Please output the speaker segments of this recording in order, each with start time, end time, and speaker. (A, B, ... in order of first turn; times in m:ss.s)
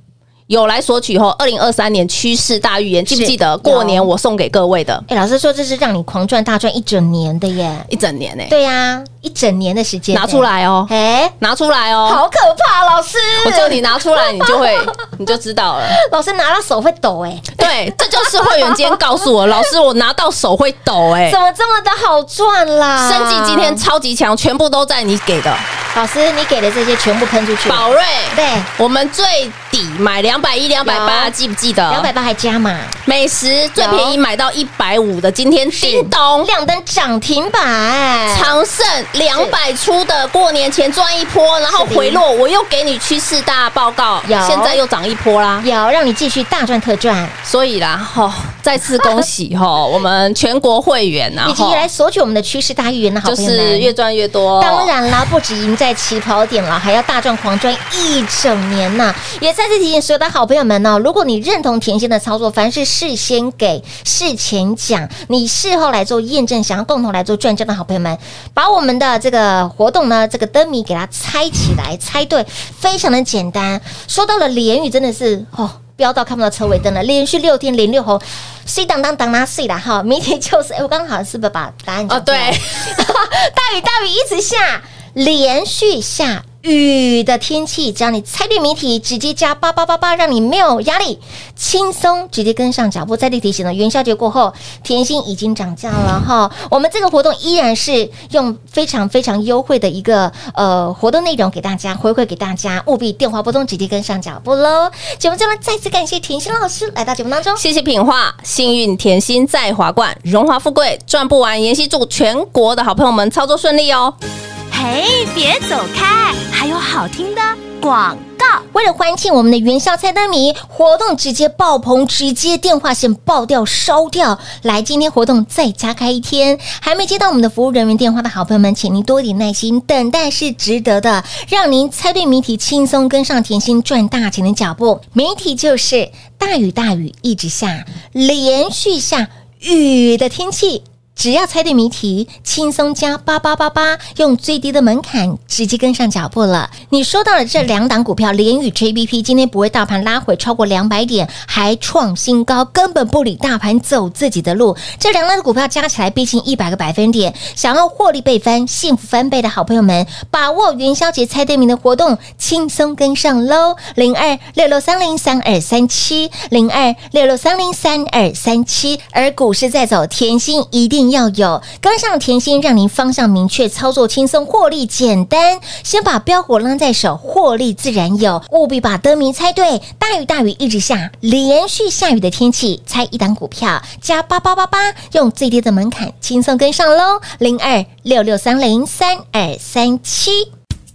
0:00.5-0:05.1 A
0:03.1-0:04.1 B
0:05.1-0:07.9 B
0:07.9-0:08.5 A
0:08.5-0:11.4 B
0:10.1-0:12.2 A
0:12.0-0:14.9 B
0:13.3-0:16.0 A
0:15.9-0:19.6 B
0:17.6-0:21.4 A
0:21.2-0:23.8 B
0:23.0-0:25.6 A
0:25.9-0:28.7 B
0:27.7-0:32.1 A
0:30.8-0:31.3 B
0:31.9-0:33.0 B
0:33.1-0:36.5 A
0:33.8-0:34.2 B
0:35.7-0:38.6 B
0:38.3-0:45.6 A
0:41.7-0:42.2 B
0:44.2-0:44.8 B
0:45.6-0:47.4 B
0:47.4-0:51.8 A
0:49.0-0:49.2 B
0:51.4-0:53.9 B
0:53.2-0:54.9 A
0:54.6-1:47.6 B
1:22.1-1:23.0 A
1:47.6-1:54.1 A
1:54.7-1:58.6 C
1:58.7-3:10.5 B